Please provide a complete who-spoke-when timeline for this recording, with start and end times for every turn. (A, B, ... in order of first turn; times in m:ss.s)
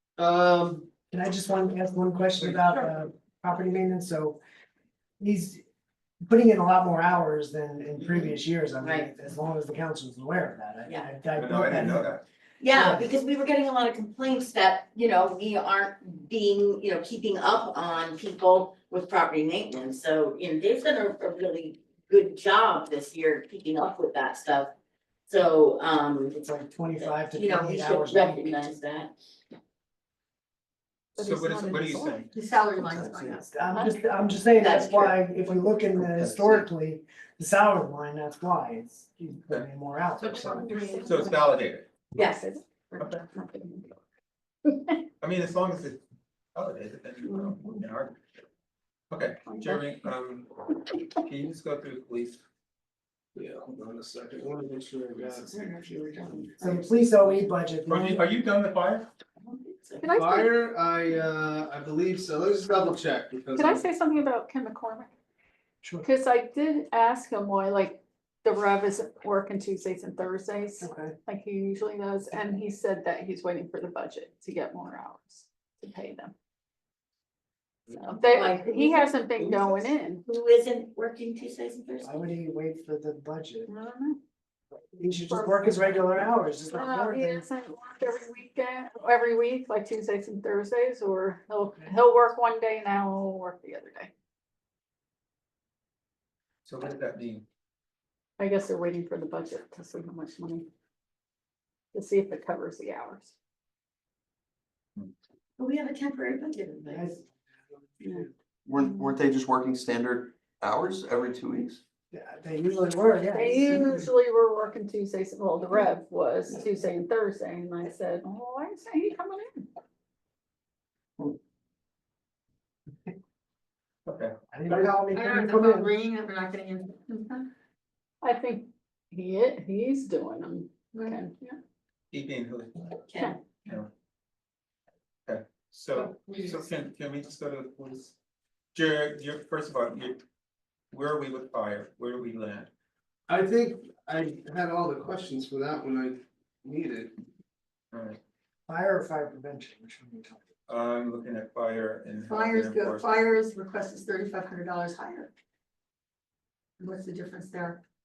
0:00.2-0:00.9 A
0:01.1-0:04.4 B
0:02.4-0:02.7 A
0:05.2-0:05.6 B
0:06.2-0:12.2 B
0:08.8-0:09.1 C
0:11.4-0:12.2 D
0:12.6-0:24.7 C
0:12.7-0:13.1 B
0:25.3-0:26.4 C
0:26.4-0:28.7 B
0:27.0-0:29.1 C
0:27.3-0:27.8 E
0:31.2-0:32.3 D
0:31.2-0:32.3 F
0:32.3-0:33.4 E
0:32.8-0:40.8 B
0:33.7-0:34.4 F
0:34.6-0:35.2 C
0:40.2-0:41.5 F
0:41.0-0:41.9 D
0:42.2-0:42.4 C
0:42.2-0:44.0 F
0:44.6-0:45.0 F
0:45.2-0:46.0 D
0:46.6-0:48.2 D
0:47.3-0:47.6 F
0:49.1-0:50.5 D
0:49.4-0:50.1 F
0:51.2-0:52.4 D
0:53.4-0:55.7 A
0:55.2-0:56.9 C
0:56.6-0:58.3 B
0:57.9-0:59.1 D
0:59.4-1:00.1 C
1:00.0-1:00.5 F
1:00.1-1:03.9 A
1:03.5-1:05.1 F
1:06.0-1:16.3 F
1:10.8-1:11.2 B
1:17.9-1:20.2 F
1:18.2-1:22.2 C
1:22.0-1:23.7 B
1:23.7-1:24.2 F
1:24.9-1:27.4 B
1:25.3-1:34.1 F
1:31.7-1:32.0 B
1:36.6-1:37.5 D
1:38.4-1:40.7 F
1:41.9-1:43.3 F
1:45.6-1:47.1 C
1:46.9-1:48.3 B
1:48.7-1:51.8 G
1:48.8-1:49.2 F
1:52.1-1:54.1 B
1:53.3-1:59.7 F
2:04.1-2:04.3 D
2:04.5-2:05.9 B
2:04.7-2:07.5 E
2:08.2-2:11.6 F
2:10.9-2:11.2 E
2:12.1-2:13.0 D
2:13.6-2:13.9 D
2:15.3-2:18.2 D
2:16.3-2:16.5 E
2:18.7-2:20.2 D
2:20.9-2:22.7 D
2:23.3-2:27.2 A
2:27.9-2:28.2 D
2:28.7-2:30.5 B
2:30.7-2:33.1 D
2:32.3-2:35.3 E
2:36.8-2:37.8 E